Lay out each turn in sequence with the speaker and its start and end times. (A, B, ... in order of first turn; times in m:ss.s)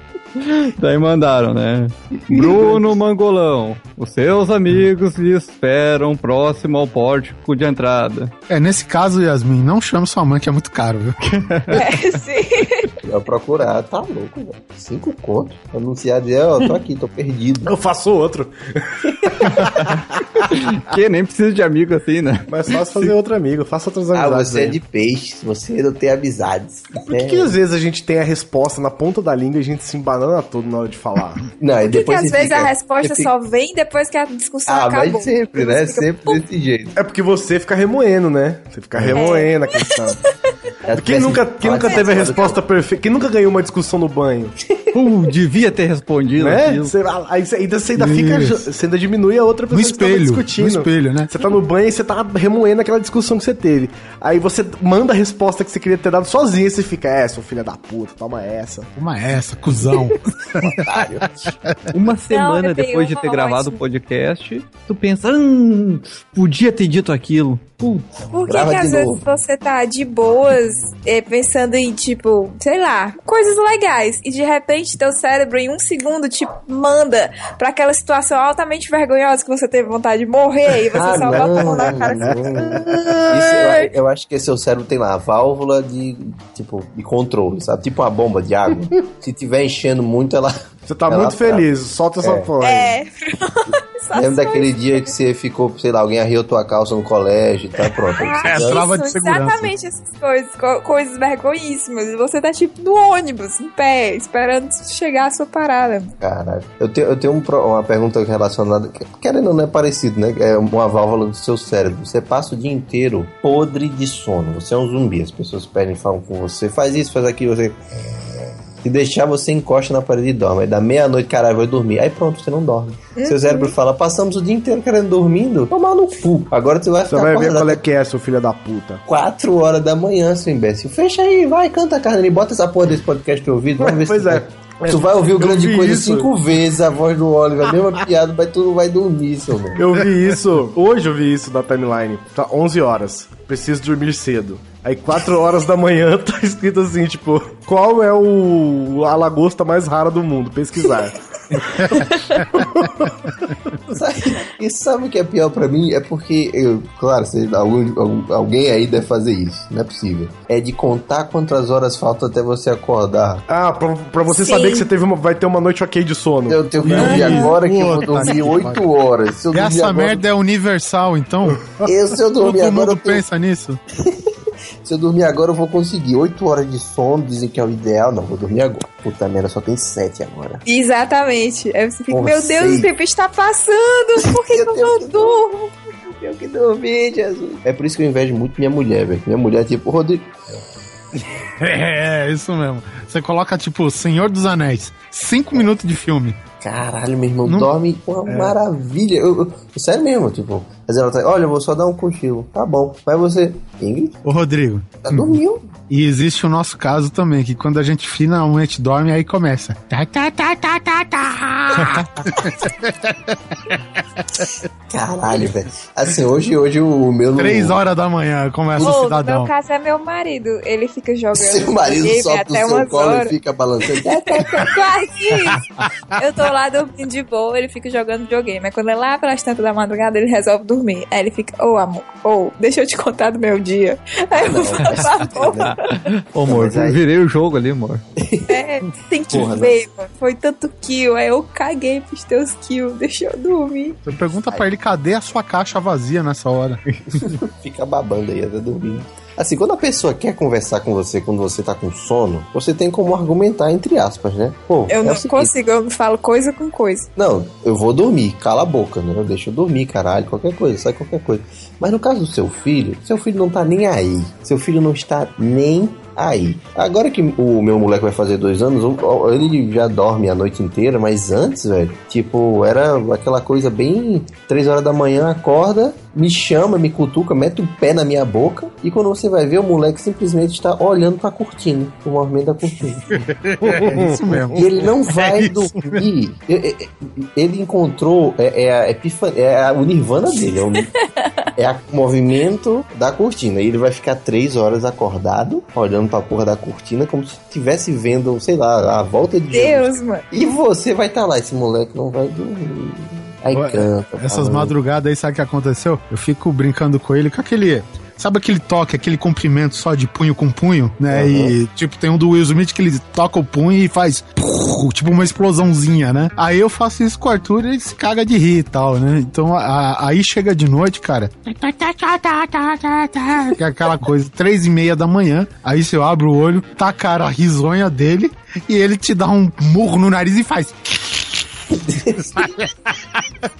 0:00.4-0:08.3 A
0:02.3-0:02.8 B
0:08.5-0:11.2 C
0:11.2-0:11.9 A
0:11.7-0:12.9 D
0:13.0-0:17.7 B
0:17.6-0:19.9 E
0:20.5-0:22.5 A
0:22.5-0:24.8 E
0:24.1-0:27.6 B
0:27.0-0:31.4 E
0:31.6-0:33.3 B
0:31.9-0:36.4 D
0:34.7-0:36.9 B
0:36.9-0:40.2 E
0:39.1-0:39.8 D
0:40.8-0:42.6 B
0:40.9-0:44.5 E
0:41.8-0:42.4 D
0:44.9-0:46.9 A
0:46.4-0:58.9 E
0:48.0-0:48.6 C
0:49.7-0:51.3 C
0:59.0-1:01.9 C
1:00.6-1:01.5 B
1:01.9-1:08.1 A
1:02.3-1:03.8 D
1:08.3-1:23.9 D
1:08.5-1:09.2 B
1:20.9-1:30.5 B
1:21.3-1:23.1 E
1:30.9-1:33.0 E
1:31.1-1:31.6 B
1:32.2-1:32.5 B
1:32.6-1:35.1 D
1:34.1-1:38.8 B
1:38.2-1:46.1 D
1:38.4-1:39.7 C
1:46.2-1:57.8 B
1:58.8-2:07.8 B
2:03.2-2:03.7 D
2:07.1-2:09.0 E
2:09.1-2:19.8 B
2:13.8-2:16.3 E
2:19.7-2:31.2 E
2:32.5-2:33.1 E
2:33.9-2:43.4 B
2:43.5-2:47.3 E
2:44.3-2:44.9 D
2:46.5-2:50.2 B
2:46.8-2:48.8 C
2:46.9-2:47.5 D
2:49.5-2:53.8 C
2:51.8-2:53.2 B
2:54.8-3:00.6 B
3:00.6-3:05.7 D
3:02.1-3:02.9 B
3:04.4-3:05.4 B
3:06.3-3:10.3 B
3:11.4-3:16.4 C
3:16.6-3:24.2 B
3:17.4-3:17.7 C
3:18.3-3:18.6 C
3:24.2-3:25.4 C
3:25.0-3:25.7 B
3:25.9-3:33.8 C
3:34.9-3:37.7 B
3:37.4-3:39.5 C
3:38.8-3:45.6 D
3:41.4-3:44.7 B
3:46.2-3:56.0 D
3:54.3-3:55.7 B
3:55.6-3:58.0 A
3:56.4-3:57.0 B
3:58.5-4:04.0 D
3:59.3-3:59.7 B
4:04.0-4:06.8 C
4:07.3-4:15.5 B
4:14.9-4:17.1 D
4:17.2-4:43.2 B
4:43.1-4:46.0 C
4:43.6-4:44.4 E
4:44.5-4:50.8 B
4:51.6-5:04.7 B
4:59.5-5:00.2 D
5:03.5-5:31.5 C
5:11.1-5:11.5 B
5:31.9-5:32.5 B
5:32.3-5:33.2 C